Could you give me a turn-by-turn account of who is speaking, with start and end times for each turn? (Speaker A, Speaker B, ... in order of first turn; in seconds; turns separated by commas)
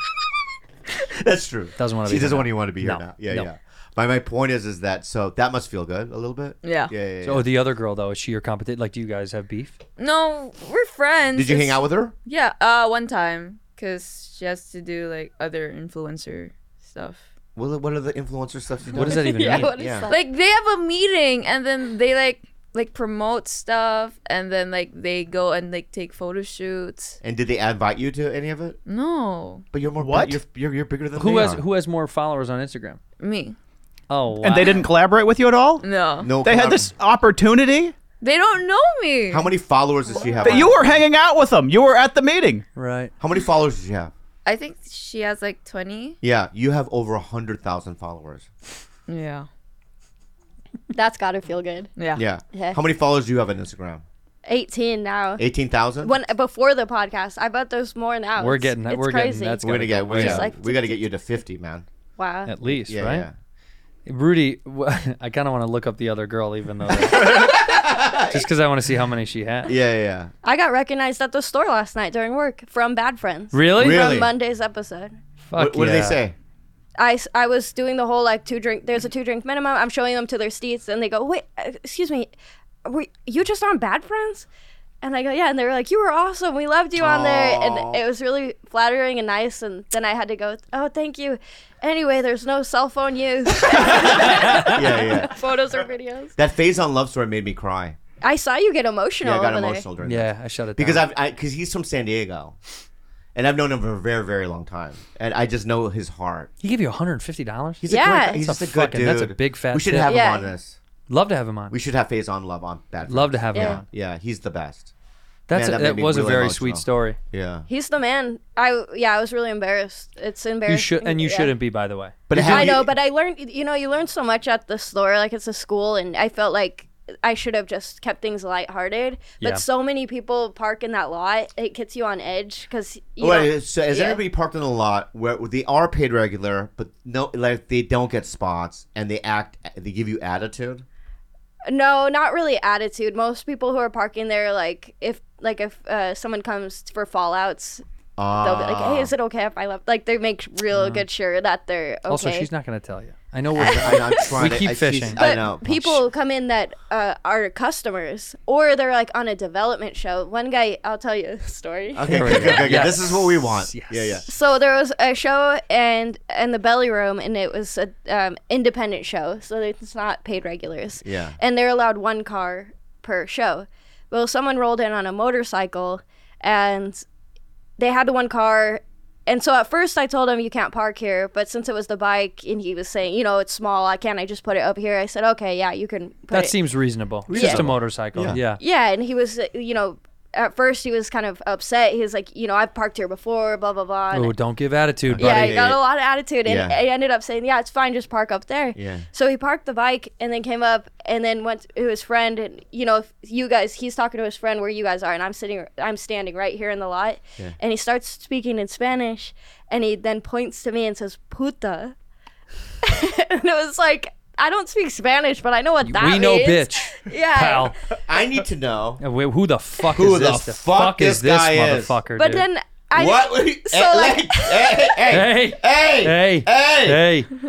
Speaker A: 1.0-7.5, Speaker B: 1.8-3.5, Speaker C: 6.6-6.9, Speaker B: 7.2-9.8, Speaker C: 10.0-17.2, Speaker A: 11.3-12.1, Speaker A: 17.6-20.1, Speaker B: 18.9-19.7, Speaker D: 19.0-20.2, Speaker C: 20.1-27.2, Speaker A: 27.2-28.8, Speaker C: 28.9-29.6, Speaker A: 29.7-31.6, Speaker E: 30.0-30.4, Speaker B: 31.1-33.0, Speaker C: 33.2-33.6, Speaker B: 34.1-34.9, Speaker E: 34.4-35.9, Speaker C: 35.8-36.4, Speaker A: 36.2-36.9, Speaker E: 36.4-37.9, Speaker C: 38.2-39.5, Speaker A: 39.3-41.0, Speaker C: 40.1-40.7, Speaker E: 40.4-42.6, Speaker B: 42.8-43.1, Speaker A: 43.2-44.1, Speaker C: 44.5-46.2, Speaker A: 46.2-48.5, Speaker C: 49.1-49.5, Speaker D: 50.9-51.9, Speaker C: 52.0-52.2, Speaker A: 52.1-54.0, Speaker D: 52.5-52.8, Speaker D: 54.5-55.5, Speaker A: 55.4-56.1, Speaker D: 56.0-61.2, Speaker B: 58.4-60.5, Speaker A: 59.6-61.9, Speaker D: 62.2-62.5, Speaker B: 62.5-63.3, Speaker A: 62.6-63.3, Speaker B: 64.1-67.5, Speaker A: 66.9-68.5, Speaker B: 68.3-69.7, Speaker A: 69.7-70.3, Speaker D: 70.4-75.1, Speaker B: 73.5-74.0, Speaker A: 73.8-74.3, Speaker B: 75.5-76.2, Speaker A: 75.6-76.3, Speaker D: 77.0-82.3, Speaker D: 82.8-84.5, Speaker D: 85.0-96.3, Speaker A: 87.0-88.0, Speaker A: 93.8-95.4, Speaker B: 94.2-94.7, Speaker A: 96.4-98.0, Speaker D: 98.2-99.9, Speaker A: 99.2-102.6, Speaker B: 100.0-101.1, Speaker A: 103.3-106.5, Speaker B: 106.6-110.1, Speaker A: 107.8-110.8, Speaker D: 107.9-108.4, Speaker D: 110.1-110.5, Speaker B: 111.1-111.8, Speaker A: 111.7-114.9, Speaker B: 113.1-113.8, Speaker D: 113.5-113.8, Speaker B: 115.5-117.2, Speaker A: 115.5-117.7, Speaker D: 117.7-121.5, Speaker B: 120.7-122.7, Speaker A: 122.3-122.9, Speaker D: 122.3-134.2, Speaker A: 133.2-140.8, Speaker D: 141.7-147.8, Speaker A: 148.2-149.1, Speaker D: 148.4-152.5, Speaker B: 150.7-151.1, Speaker B: 152.1-155.8, Speaker A: 153.6-156.0, Speaker D: 153.7-154.4, Speaker D: 155.2-162.8, Speaker A: 161.9-164.3, Speaker B: 162.1-164.3, Speaker D: 164.3-177.0, Speaker A: 171.0-171.4, Speaker D: 177.8-186.6, Speaker B: 186.3-188.6, Speaker A: 187.3-188.4, Speaker D: 187.3-187.7, Speaker D: 188.3-194.3, Speaker B: 194.1-195.6, Speaker A: 195.1-195.8, Speaker D: 195.2-211.9, Speaker A: 196.4-196.8, Speaker A: 198.8-199.1, Speaker D: 212.8-217.7, Speaker B: 215.8-217.7, Speaker A: 218.1-219.0, Speaker B: 219.0-222.5, Speaker A: 219.9-222.0, Speaker D: 222.2-224.9, Speaker A: 222.9-227.2, Speaker B: 225.1-227.3